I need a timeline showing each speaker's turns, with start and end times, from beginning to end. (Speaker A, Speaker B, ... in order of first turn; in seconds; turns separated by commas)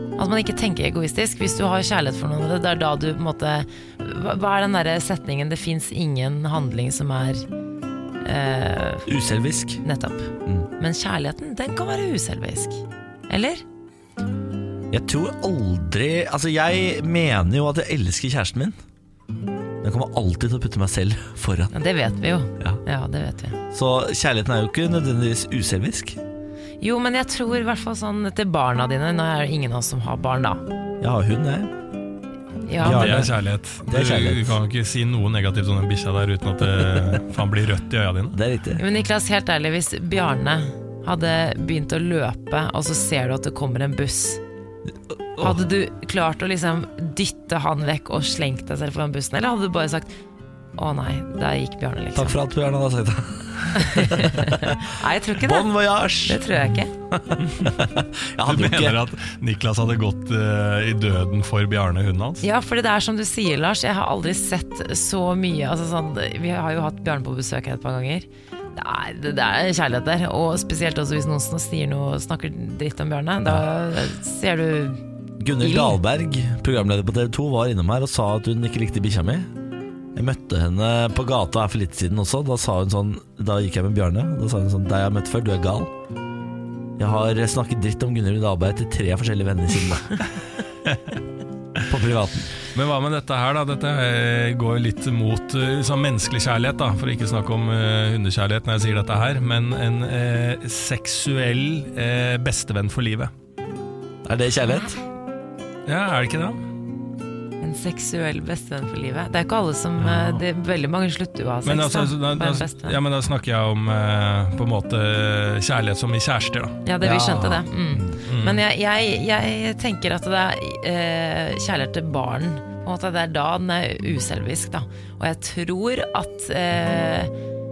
Speaker A: 0.2-7.5, Speaker A: 8.2-9.1, Speaker B: 9.1-9.8, Speaker A: 9.8-13.6, Speaker B: 14.9-18.8, Speaker B: 19.8-21.7, Speaker A: 21.7-23.6, Speaker B: 23.7-26.2, Speaker A: 26.8-30.6, Speaker B: 31.0-31.7, Speaker A: 32.6-33.2, Speaker B: 32.8-33.4, Speaker C: 32.8-38.4, Speaker B: 33.9-34.5, Speaker B: 36.8-37.2, Speaker B: 38.3-38.8, Speaker A: 38.8-44.4, Speaker B: 45.4-45.6, Speaker A: 45.4-50.1, Speaker A: 50.8-52.4, Speaker B: 52.1-54.8, Speaker A: 53.8-55.7, Speaker B: 55.4-59.0, Speaker A: 56.2-56.9, Speaker C: 58.4-62.4, Speaker A: 62.4-75.0, Speaker B: 75.4-79.5, Speaker A: 75.6-76.0, Speaker B: 80.1-85.9, Speaker B: 87.0-90.2, Speaker B: 91.9-92.5, Speaker C: 92.7-103.3, Speaker B: 104.2-105.0, Speaker A: 104.7-105.0, Speaker C: 105.9-106.6, Speaker A: 107.6-113.0, Speaker C: 110.0-110.4, Speaker C: 111.6-117.6, Speaker A: 116.8-127.3, Speaker B: 117.1-117.4, Speaker C: 118.2-118.6